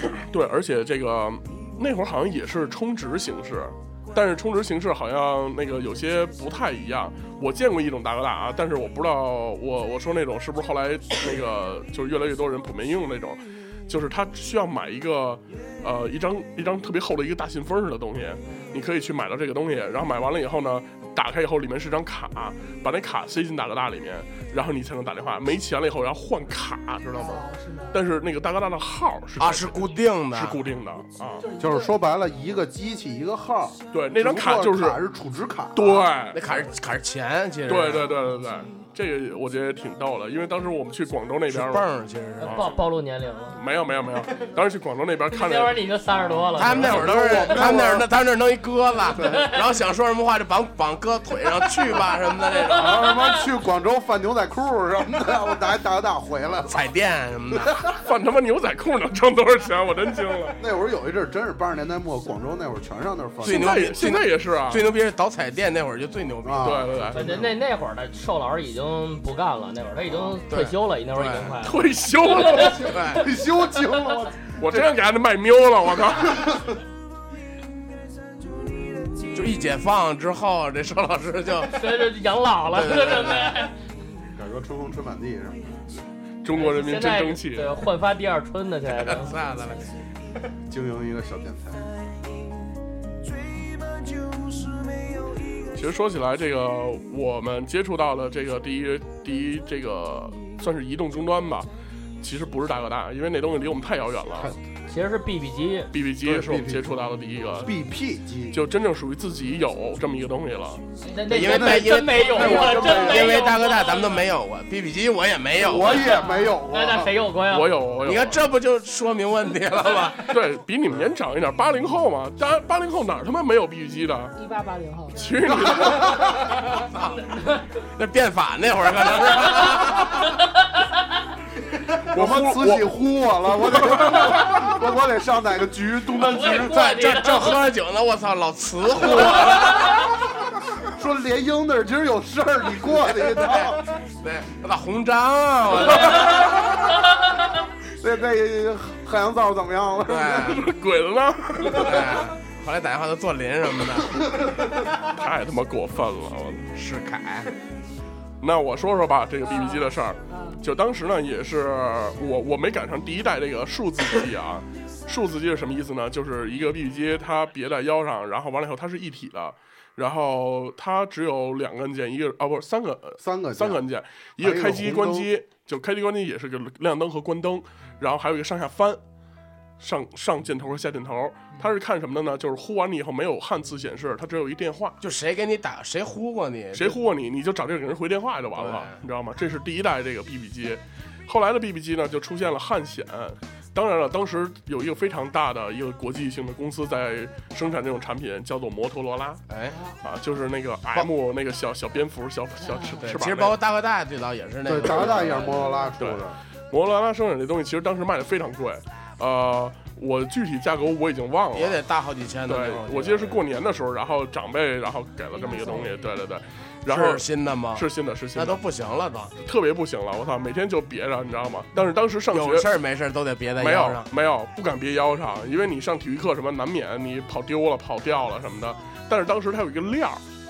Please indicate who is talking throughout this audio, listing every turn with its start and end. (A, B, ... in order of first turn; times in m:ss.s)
0:00.2-0:31.4 A
0:18.5-0:18.7 B
0:27.1-0:28.0 B
0:29.4-0:30.6 C
0:31.4-0:31.9 B
0:31.6-0:36.1 D
0:33.9-0:35.0 A
0:35.7-0:36.6 A
0:36.3-0:38.1 C
0:37.7-0:41.9 A
0:41.5-0:42.6 C
0:42.4-0:43.6 E
0:42.4-0:42.7 A
0:43.6-0:45.8 A
0:45.3-0:47.4 E
0:46.1-0:48.1 D
0:46.5-0:53.1 C
0:49.1-0:49.5 D
0:52.6-0:53.4 E
0:52.7-0:56.9 D
0:56.7-0:57.8 C
0:57.5-0:57.9 D
0:58.0-1:00.6 A
1:00.6-1:04.2 D
1:03.4-1:04.9 A
1:03.4-1:07.2 C
1:06.4-1:07.5 D
1:06.6-1:07.2 A
1:07.1-1:13.1 E
1:10.5-1:11.6 C
1:11.6-1:12.9 A
1:12.4-1:15.0 D
1:12.7-1:13.3 C
1:13.6-1:14.2 E
1:14.6-1:16.7 A
1:16.2-1:16.7 D
1:19.3-1:21.9 C
1:21.6-1:23.7 E
1:22.7-1:23.6 C
1:24.3-1:25.7 D
1:26.4-1:27.7 A
1:26.5-1:29.4 E
1:29.0-1:29.9 C
1:30.7-1:31.9 D
1:35.7-1:41.7 A
1:42.2-1:44.5 A
1:44.9-1:45.9 E
1:45.9-1:47.7 A
1:46.2-1:46.9 D
1:47.6-1:48.6 D
1:48.5-1:50.8 A
1:51.0-1:54.2 E
1:51.3-1:53.4 D
1:51.3-1:56.0 C
1:55.5-1:57.2 D
1:55.9-1:57.8 E
1:56.1-1:56.5 B
1:57.5-1:58.4 A
1:58.0-2:00.3 C
2:00.3-2:04.3 A
2:04.3-2:05.2 B
2:05.1-2:06.4 A
2:05.8-2:06.7 B
2:06.7-2:10.4 C
2:07.2-2:07.6 E
2:10.3-2:10.9 E
2:12.0-2:17.0 D
2:12.1-2:12.9 A
2:13.6-2:14.7 A
2:16.2-2:17.7 E
2:16.5-2:19.9 C
2:18.9-2:20.1 D
2:19.6-2:20.0 E
2:20.8-2:23.9 D
2:23.4-2:26.7 C
2:28.0-2:30.6 D
2:30.1-2:30.6 C
2:30.4-2:32.3 A
2:31.6-2:34.4 C
2:35.0-2:36.7 A
2:36.7-2:37.5 C
2:38.4-2:59.0 A
2:39.5-2:40.6 B
2:53.2-2:53.8 D
2:54.4-2:55.3 D
2:59.8-3:05.0 A
3:05.0-3:07.0 C
3:06.7-3:19.4 A
3:08.5-3:09.0 C
3:19.5-3:19.8 C
3:20.0-3:23.6 A
3:23.0-3:25.5 C
3:24.6-3:26.4 D
3:25.1-3:25.9 B
3:26.0-3:31.8 A
3:31.5-3:33.4 C
3:32.4-3:38.6 A
3:35.4-3:36.0 B
3:36.9-3:39.3 C
3:39.4-3:42.7 A
3:42.3-3:44.1 C
3:43.6-3:50.2 A